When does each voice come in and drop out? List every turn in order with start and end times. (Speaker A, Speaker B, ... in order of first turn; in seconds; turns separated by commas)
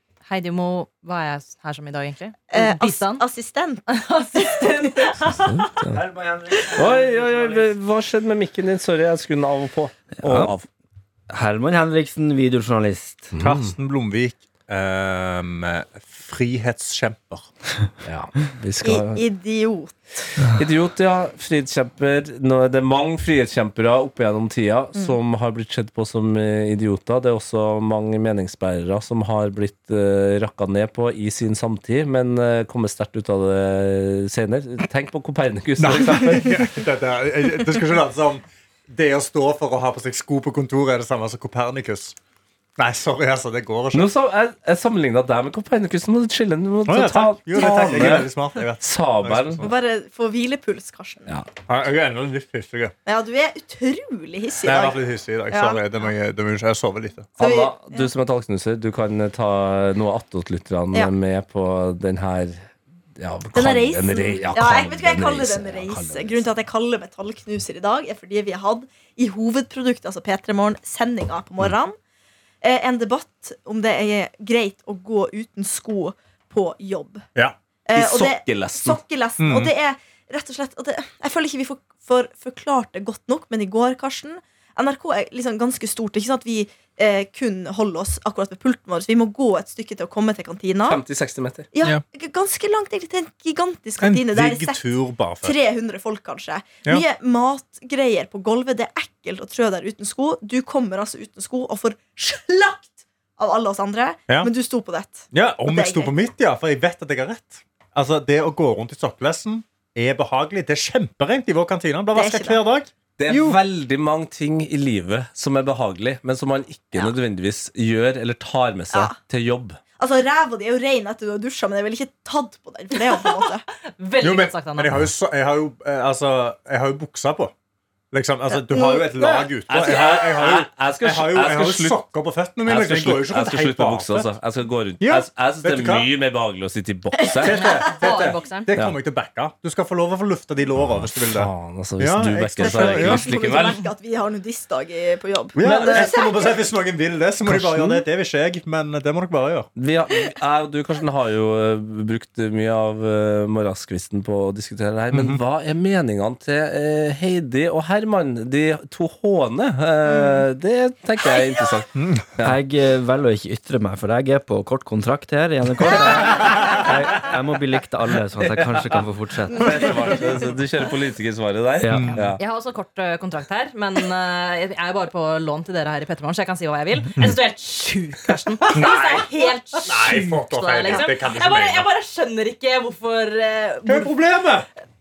Speaker A: 0.3-3.2, Speaker B: 2.5-5.2, Speaker A: 3.9-5.5, Speaker C: 5.3-6.0, Speaker D: 5.9-7.7, Speaker C: 6.7-10.7, Speaker D: 10.2-10.5, Speaker D: 11.3-13.3, Speaker C: 13.3-13.7, Speaker E: 13.4-17.5, Speaker C: 18.0-19.2, Speaker B: 18.8-20.3, Speaker C: 20.5-36.6, Speaker E: 35.8-42.1, Speaker E: 42.8-44.1, Speaker C: 43.9-49.6, Speaker E: 46.9-49.7, Speaker B: 49.6-51.3, Speaker E: 51.7-52.9, Speaker B: 53.0-55.8, Speaker E: 54.6-57.3, Speaker B: 57.4-58.1, Speaker C: 57.4-62.6, Speaker C: 63.2-66.4, Speaker B: 63.5-72.0, Speaker B: 72.6-77.2, Speaker B: 77.8-91.0, Speaker C: 77.9-79.0, Speaker E: 79.4-79.7, Speaker C: 90.8-91.7, Speaker B: 91.7-94.8, Speaker E: 94.0-95.5, Speaker B: 95.4-106.1, Speaker E: 105.3-113.6, Speaker B: 112.1-112.6, Speaker C: 113.2-119.8, Speaker B: 120.0-123.6, Speaker A: 124.0-124.9, Speaker E: 124.2-127.5, Speaker E: 128.1-134.3, Speaker B: 128.5-129.5, Speaker C: 129.7-132.0, Speaker C: 132.7-137.6, Speaker E: 135.0-136.1, Speaker E: 137.4-143.4, Speaker B: 137.4-137.9, Speaker A: 137.6-138.7, Speaker C: 141.2-143.8, Speaker B: 142.6-146.6, Speaker E: 145.5-149.7, Speaker C: 145.6-146.2, Speaker C: 147.4-148.0, Speaker C: 149.8-162.6, Speaker E: 155.1-155.4, Speaker B: 160.1-160.4, Speaker E: 161.9-162.2, Speaker D: 162.4-169.8, Speaker C: 168.4-172.4, Speaker B: 169.5-170.5, Speaker D: 171.8-172.2, Speaker E: 171.9-172.2, Speaker A: 172.4-184.1, Speaker E: 178.7-179.2, Speaker B: 178.8-179.9, Speaker E: 179.8-181.9, Speaker E: 183.8-184.7